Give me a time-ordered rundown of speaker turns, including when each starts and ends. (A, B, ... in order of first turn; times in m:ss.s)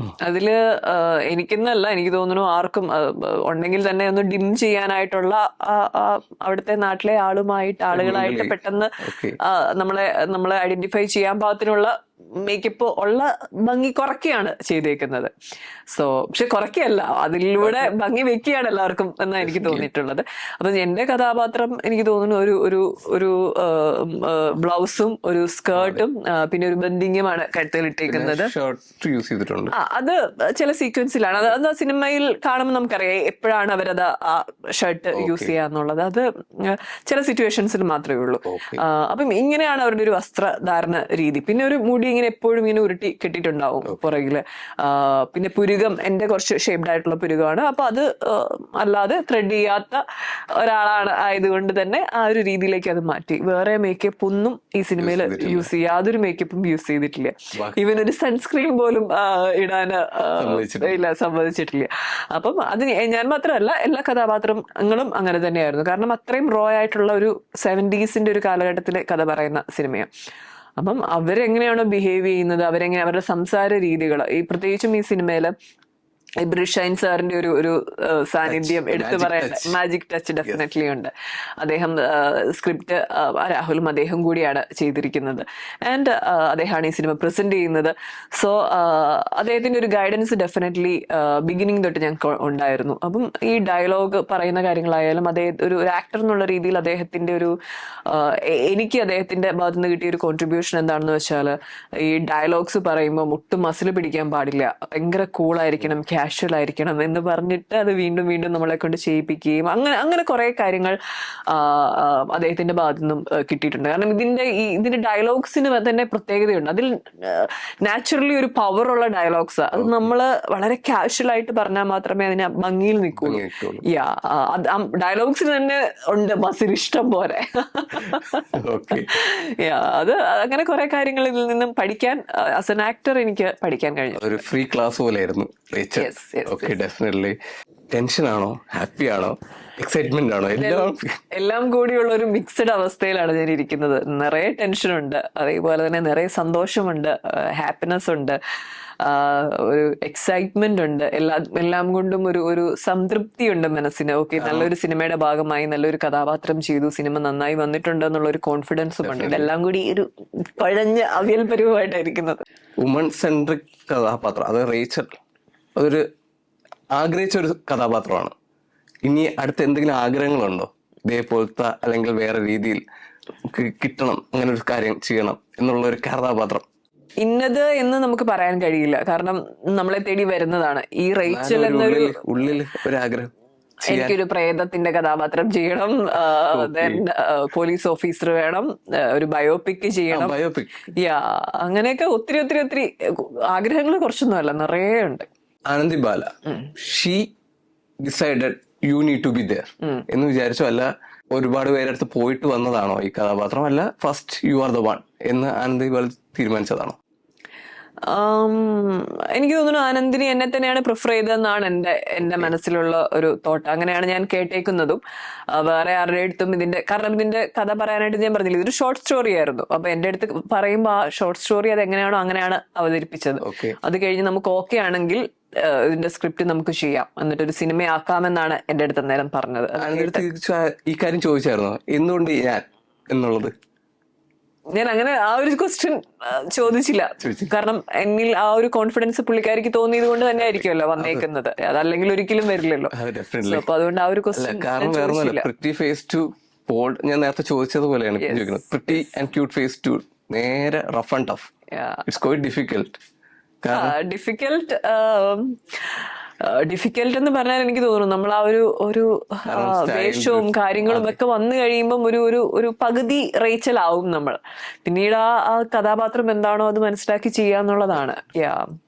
0:00.2-0:15.3 A
0:07.9-0:09.4 B
0:15.9-0:28.5 A
0:17.6-0:17.9 B
0:19.4-0:19.9 B
0:25.8-0:26.0 B
0:28.1-0:29.7 B
0:29.7-0:50.0 A
0:35.2-0:35.5 B
0:38.5-0:38.8 B
0:50.6-1:10.1 A
0:55.0-0:55.7 B
1:00.4-1:01.0 B
1:10.8-1:15.6 A
1:16.4-1:37.6 A
1:18.5-1:19.8 B
1:38.1-1:51.0 A
1:51.5-2:14.4 A
1:59.8-2:00.1 B
2:03.2-2:03.8 B
2:08.0-2:09.2 B
2:14.2-2:17.4 B
2:16.0-2:16.8 A
2:17.9-2:21.2 B
2:20.6-2:28.4 A
2:29.0-2:42.4 A
2:34.4-2:34.7 B
2:39.0-2:39.5 B
2:42.8-2:45.2 B
2:45.8-2:46.0 B
2:46.9-2:48.3 B
2:49.0-2:52.8 B
2:53.5-2:56.6 B
2:57.2-3:02.2 A
3:01.3-3:03.3 B
3:03.9-3:10.4 A
3:03.9-3:04.2 B
3:06.3-3:07.0 B
3:10.1-3:10.9 B
3:11.0-3:15.3 A
3:15.7-3:17.3 B
3:18.0-3:27.0 B
3:28.1-3:35.0 A
3:32.2-3:32.5 B
3:35.5-3:50.3 A
3:43.4-3:43.8 B
3:49.8-3:53.5 B
3:54.7-4:05.5 A
3:57.2-3:57.5 B
4:00.4-4:01.2 B
4:02.9-4:03.7 B
4:04.4-4:11.5 B
4:08.2-4:09.1 A
4:11.7-4:12.0 A
4:12.1-4:13.0 B
4:13.6-4:14.0 B
4:13.7-4:28.7 A
4:19.5-4:21.2 B